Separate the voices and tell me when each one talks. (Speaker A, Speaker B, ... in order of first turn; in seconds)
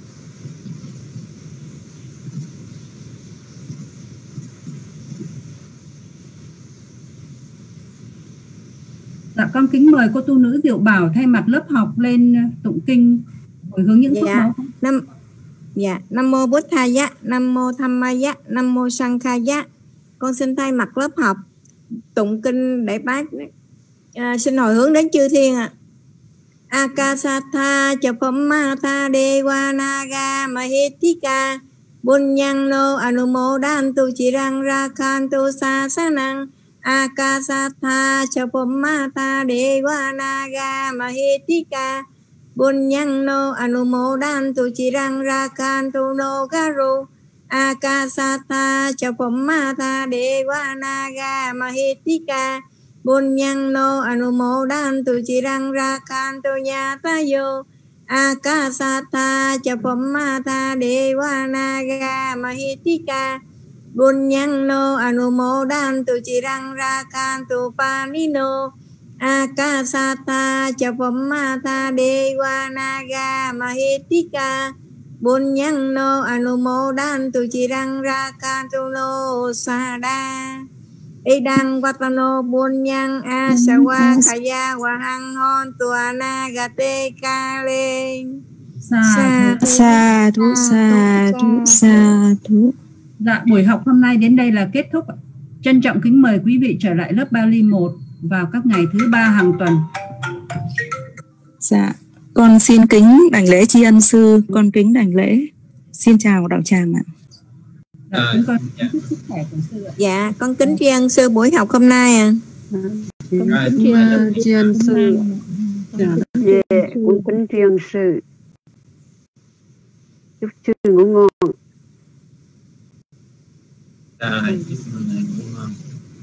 Speaker A: 9.4-14.7, 88.8-89.6, 93.2-99.9, 108.1-110.0
Speaker B: 14.1-15.1, 15.8-19.7, 20.2-21.4, 22.1-23.5, 24.2-25.7, 26.7-42.0, 42.6-63.4, 64.0-74.7, 75.2-80.7, 81.2-88.4, 89.0-91.7, 110.0-112.4
Speaker C: 83.7-84.2, 89.5-92.7, 101.6-107.0
Speaker D: 108.1-108.9, 113.5-115.0, 124.2-125.8
Speaker E: 112.7-115.2, 116.0-116.3
Speaker F: 116.4-118.2, 120.4-121.5